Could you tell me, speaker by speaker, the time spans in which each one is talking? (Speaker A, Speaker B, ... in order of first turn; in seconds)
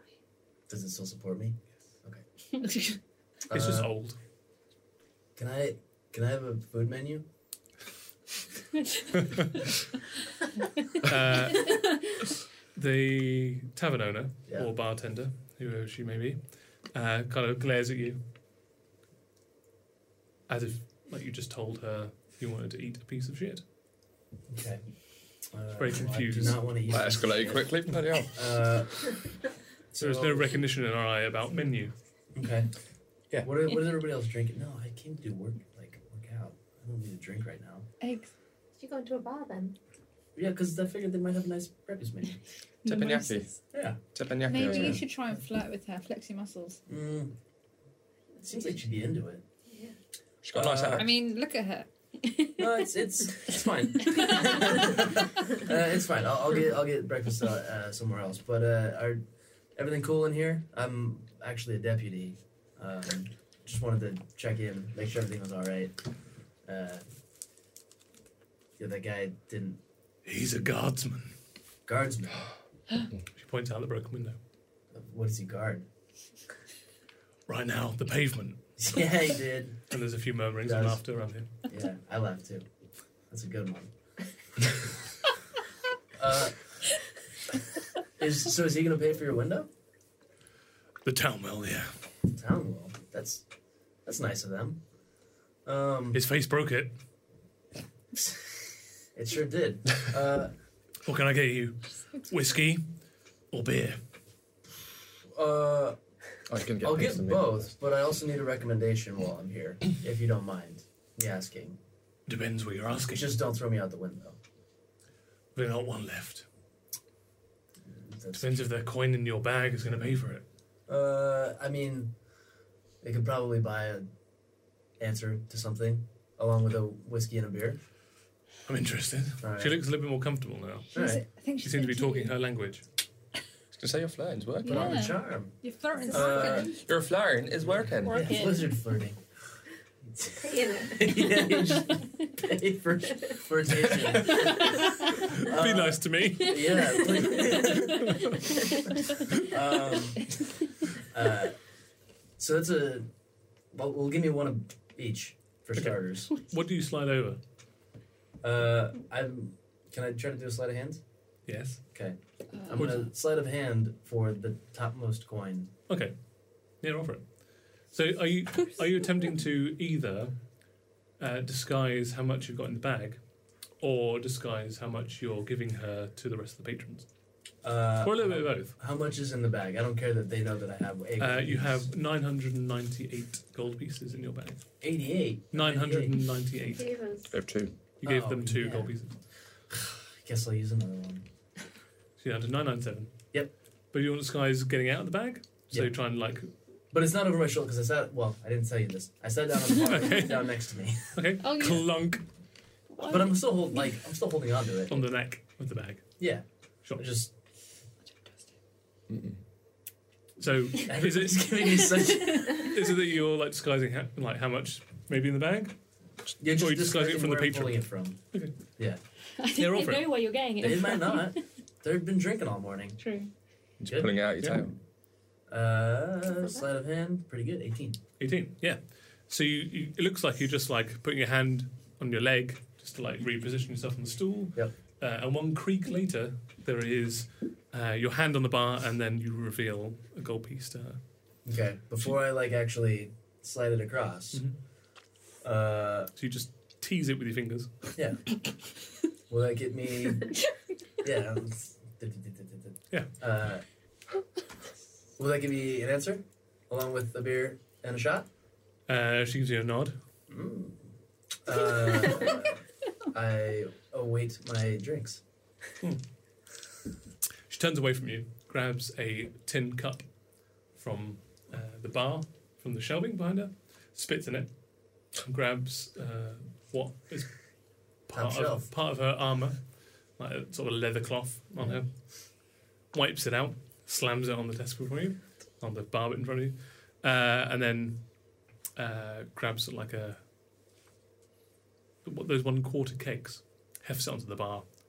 Speaker A: 0.7-2.2, 3.5-3.9, 5.3-7.2, 24.5-24.8, 25.5-29.2, 29.9-30.6, 32.3-32.7, 33.4-37.9, 40.4-42.4, 43.7-44.0, 44.5-45.0, 46.9-47.3, 48.4-49.4, 50.5-51.1, 52.6-59.2, 59.8-66.0, 66.6-67.0, 68.8-69.8, 71.8-72.5, 74.9-75.8, 78.8-79.9, 80.7-81.0, 81.6-82.7, 83.3-83.9, 86.2-86.8, 88.2-89.7, 92.3-93.4, 94.0-94.8, 95.6-96.2, 98.1-98.5, 99.1-100.5, 105.3-106.0, 106.8-111.8, 113.1-114.4, 117.9-118.5, 120.9-122.1, 123.0-124.1, 125.0-127.8, 129.4-129.8, 130.9-131.2, 134.6-136.7, 137.6-139.2, 140.0-151.6, 152.4-153.1, 153.7-156.3, 158.4-161.0, 161.9-165.7, 177.6-181.9, 184.8-186.2, 188.0-188.9, 189.7-191.2, 196.9-201.2, 203.0-205.1, 206.2-207.3, 210.8-212.7, 216.4-218.2, 220.6-223.0, 223.9-224.7, 225.5-228.0, 241.4-244.4, 245.4-246.1, 247.9-248.2, 249.3-250.3, 251.0-253.6, 255.2-258.3, 260.3-260.9, 261.4-262.6, 263.1-265.2, 278.1-278.7
Speaker B: 3.5-4.2, 9.2-9.5, 11.0-12.1, 12.7-18.2, 20.5-23.6, 25.8-26.6, 30.0-31.9, 70.2-71.3, 73.3-74.4, 77.5-78.6, 79.9-81.5, 91.0-91.9, 96.1-96.9, 101.0-102.8, 103.5-104.0, 112.3-113.3, 115.5-116.5, 118.3-120.4, 128.7-130.9, 131.6-132.8, 144.3-147.0, 147.9-148.4, 155.8-157.4, 161.4-161.8, 162.8-163.1, 165.9-166.1, 166.8-170.3, 171.2-173.2, 173.8-177.1, 178.0-178.8, 181.2-184.6, 185.5-186.9, 188.0-189.2, 192.2-193.2, 193.9-196.5, 199.8-200.5, 201.1-202.2, 204.9-206.2, 210.4-211.6, 212.5-215.8, 216.4-218.5, 219.5-220.2, 228.2-241.0, 246.2-247.7, 258.9-259.9, 267.5-270.1, 270.7-274.5, 275.1-277.4, 278.0-288.1, 288.8-290.2, 292.0-294.7
Speaker C: 26.9-28.8, 42.8-43.5, 44.0-45.0, 50.4-51.1, 106.5-107.7, 133.7-135.1, 136.7-138.4, 187.3-187.7, 209.1-209.4, 223.8-224.7
Speaker D: 38.0-38.3, 44.4-46.8, 51.0-51.9, 130.9-132.3, 134.6-136.8
Speaker E: 38.8-39.8, 49.7-50.0, 140.4-141.3, 186.7-187.4
Speaker F: 42.9-43.3, 138.0-138.7, 201.4-201.8, 202.9-203.4, 219.4-221.4, 223.0-223.3